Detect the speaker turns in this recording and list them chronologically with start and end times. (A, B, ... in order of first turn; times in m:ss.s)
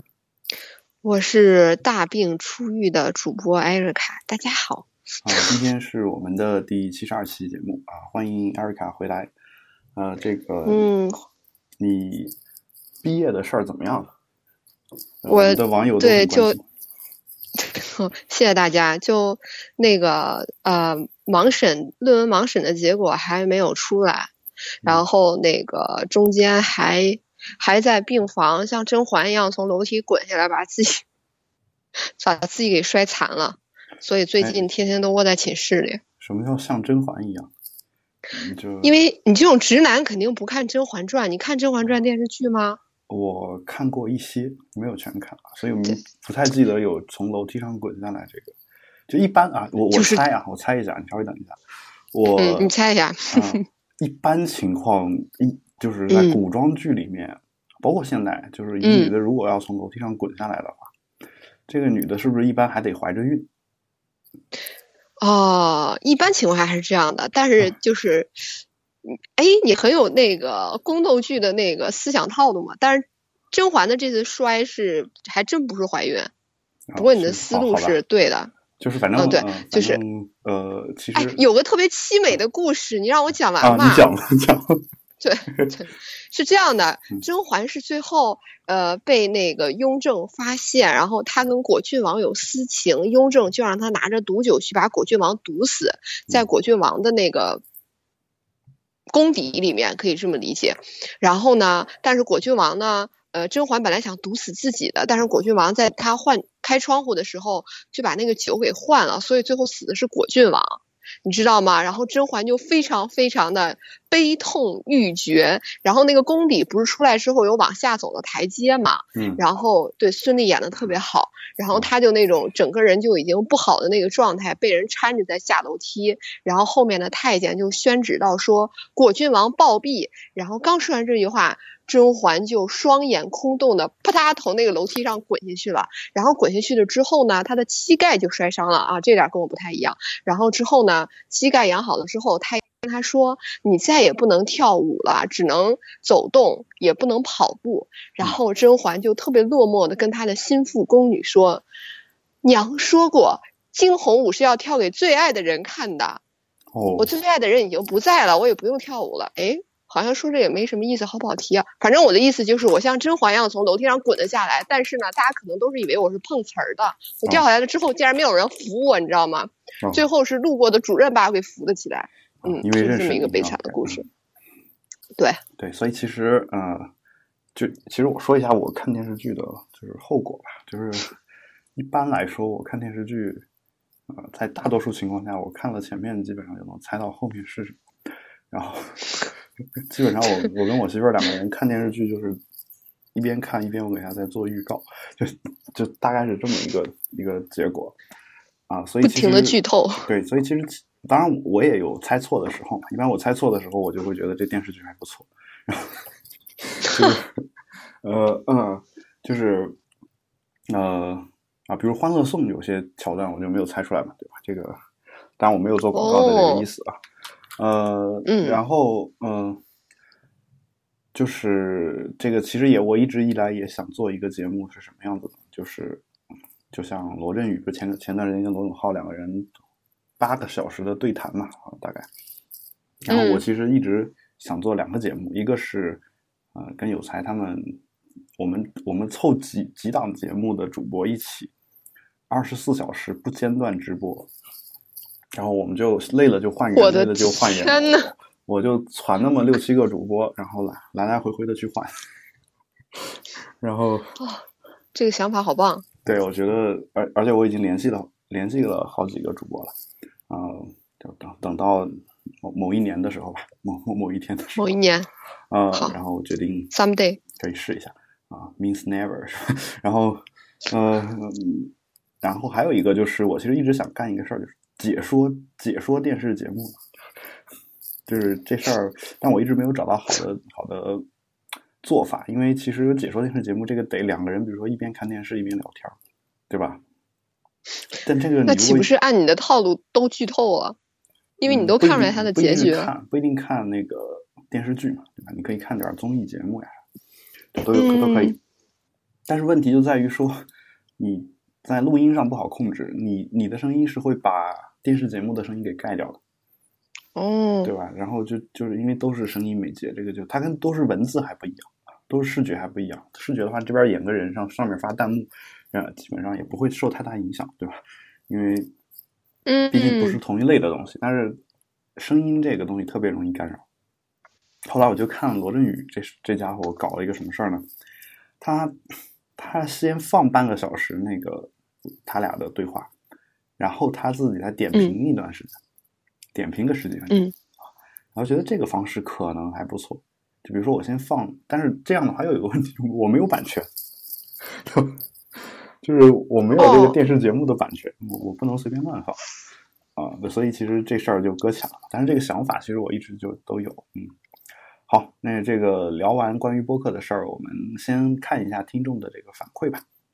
0:01.0-0:04.9 A
0:05.2-0:09.3 B
0:10.0-0:10.9 B
0:10.7-0:11.2 A
0:11.8-0:12.3 B
0:13.0-0:14.1 B
0:15.2-0:16.6 B
0:15.3-0:16.6 A
0:17.6-0:24.3 A
0:24.8-0:31.0 A
0:32.2-0:36.0 A
0:34.4-0:34.6 B
0:36.2-0:37.5 B
0:38.3-0:39.0 B
0:38.8-0:42.8 A
0:43.1-0:48.5 B
0:49.1-0:51.6 B
0:49.9-0:50.2 A
0:52.1-0:52.7 B
0:52.4-0:53.6 A
0:53.3-1:00.9 B
0:56.1-0:56.4 A
0:58.8-0:59.1 A
1:01.7-1:03.5 B
1:05.2-1:08.3 A
1:09.1-1:16.3 A
1:16.9-1:18.0 B
1:17.0-1:18.5 A
1:18.8-1:21.4 B
1:19.2-1:20.0 A
1:21.2-1:24.1 A
1:23.6-1:24.8 B
1:25.2-1:37.6 A
1:39.1-2:31.6 A
1:59.2-1:59.4 B
2:32.4-2:36.2 A
2:36.7-2:37.2 B
2:37.0-2:54.0 A
2:52.4-2:54.0 B
2:55.2-2:55.4 A
2:55.6-2:56.9 B
2:57.6-3:01.2 B
3:01.8-3:03.4 B
3:04.1-3:07.8 B
3:08.5-3:09.0 B
3:09.9-3:12.4 B
3:13.2-3:18.0 B
3:18.7-3:26.0 B
3:19.0-3:20.0 A
3:26.6-3:27.4 B
3:28.0-3:29.8 B
3:30.7-3:34.8 B
3:35.4-3:37.0 B
3:35.9-3:36.6 A
3:37.6-3:39.6 B
3:38.3-3:38.6 A
3:41.2-3:46.0 B
3:46.7-3:49.5 B
3:50.2-3:52.1 B
3:53.0-3:56.0 B
3:53.1-3:53.4 A
3:56.6-3:57.8 B
3:58.4-4:01.5 B
4:02.3-4:04.3 B
4:05.4-4:11.9 B
4:06.8-4:08.1 A
4:13.6-4:14.2 B
4:15.0-4:15.8 A
4:16.0-4:19.7 B
4:20.3-4:24.6 B
4:24.6-4:25.1 A
4:25.5-4:26.7 B
4:26.7-4:27.2 A
4:27.4-4:36.8 B
4:38.1-4:41.0 B
4:41.8-4:46.0 B
4:46.5-4:46.8 B
4:48.0-4:48.9 B
4:48.5-4:50.8 A
4:51.4-4:52.9 A
4:51.5-4:56.8 B
4:57.6-4:58.4 B
4:57.7-4:58.4 A
4:59.3-5:00.5 B
5:01.0-5:06.2 B
5:07.2-5:07.7 A
5:07.6-5:18.7 B
5:19.5-5:20.2 A
5:19.7-5:21.4 B
5:22.0-5:23.6 B
5:24.7-5:27.6 B
5:28.4-5:28.8 B
5:29.4-5:31.5 B
5:32.0-5:32.9 B
5:33.6-5:35.6 B
5:36.4-5:37.2 B
5:38.1-5:43.7 B
5:44.5-5:45.0 B
5:45.8-5:49.2 B
5:46.6-5:47.0 A
5:50.0-5:54.2 B
5:54.9-5:59.8 B